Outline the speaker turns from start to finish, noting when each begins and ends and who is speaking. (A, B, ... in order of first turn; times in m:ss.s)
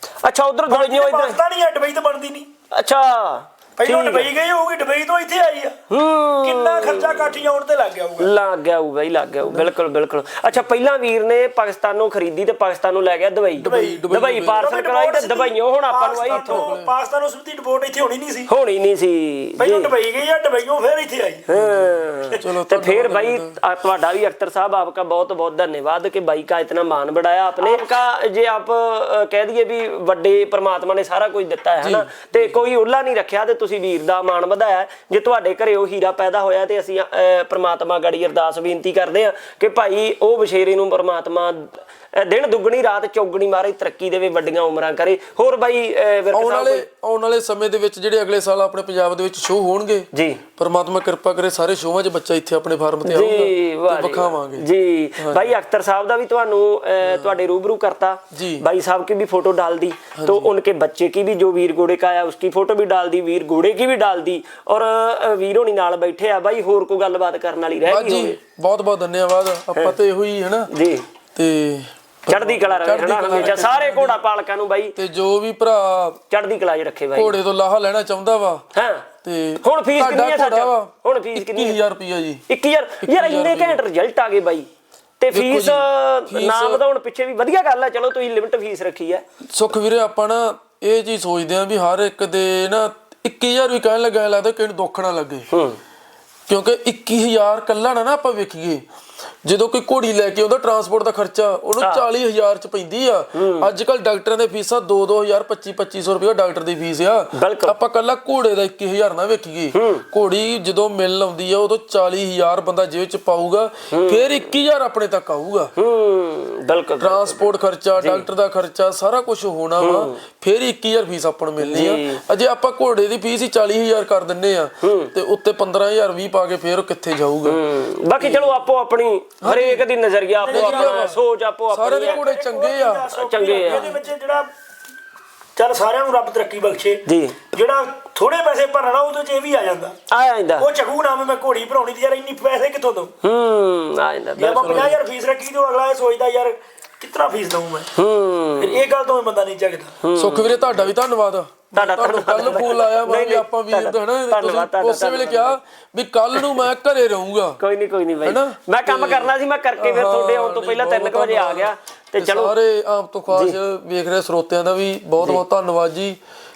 0:00.2-0:01.4 A
0:00.7-0:02.5 B
0:02.7-0:04.3 A
0:03.8-0:05.8 B
0:05.9-0:07.4 A
0:06.4-0:08.3 B
0:08.2-0:16.7 A
0:09.5-0:09.8 C
0:13.6-0:14.7 C
0:13.6-0:18.5 B
0:16.3-0:16.9 C
0:18.5-0:19.9 A
0:19.6-0:21.5 B
0:21.5-0:46.9 A
0:21.5-0:23.6 C
0:31.8-0:32.5 C
0:46.3-0:54.7 C
0:50.1-0:50.4 A
0:53.0-1:08.4 A
0:55.2-0:55.5 C
0:57.0-0:57.4 C
0:58.3-0:58.6 C
1:00.2-1:00.5 C
1:07.9-1:10.7 C
1:10.7-1:11.0 A
1:11.4-1:14.2 C
1:12.3-1:15.0 A
1:15.0-1:16.2 C
1:16.3-1:17.4 A
1:17.2-1:18.6 C
1:18.8-1:19.1 A
1:19.2-1:22.4 C
1:19.6-1:21.8 A
1:22.5-1:24.7 A
1:23.0-1:23.8 C
1:25.2-1:29.2 A
1:25.3-1:26.8 C
1:29.5-1:35.5 C
1:35.5-1:35.8 A
1:36.5-1:38.8 C
1:39.4-1:55.7 C
1:43.4-1:43.7 A
1:47.3-1:47.8 A
1:49.7-1:50.0 A
1:53.9-1:54.3 A
1:55.8-1:58.3 A
1:57.0-2:07.6 C
1:59.8-2:00.2 A
2:01.6-2:02.2 A
2:04.8-2:05.1 A
2:07.5-2:12.2 A
2:08.2-2:08.6 C
2:09.4-2:09.8 C
2:10.4-2:11.2 B
2:10.5-2:11.2 C
2:11.7-2:13.1 C
2:12.0-2:14.5 B
2:13.1-2:14.0 A
2:13.6-2:13.9 C
2:15.6-2:20.0 B
2:17.1-2:17.4 A
2:20.1-2:20.7 A
2:20.6-2:23.1 B
2:23.2-2:24.9 A
2:24.4-2:27.9 B
2:24.6-2:25.0 C
2:28.0-2:28.8 A
2:28.6-2:30.0 B
2:30.0-2:30.7 A
2:30.2-2:37.6 C
2:31.7-2:35.6 A
2:36.4-2:36.6 A
2:37.6-2:42.6 A
2:38.2-2:46.2 C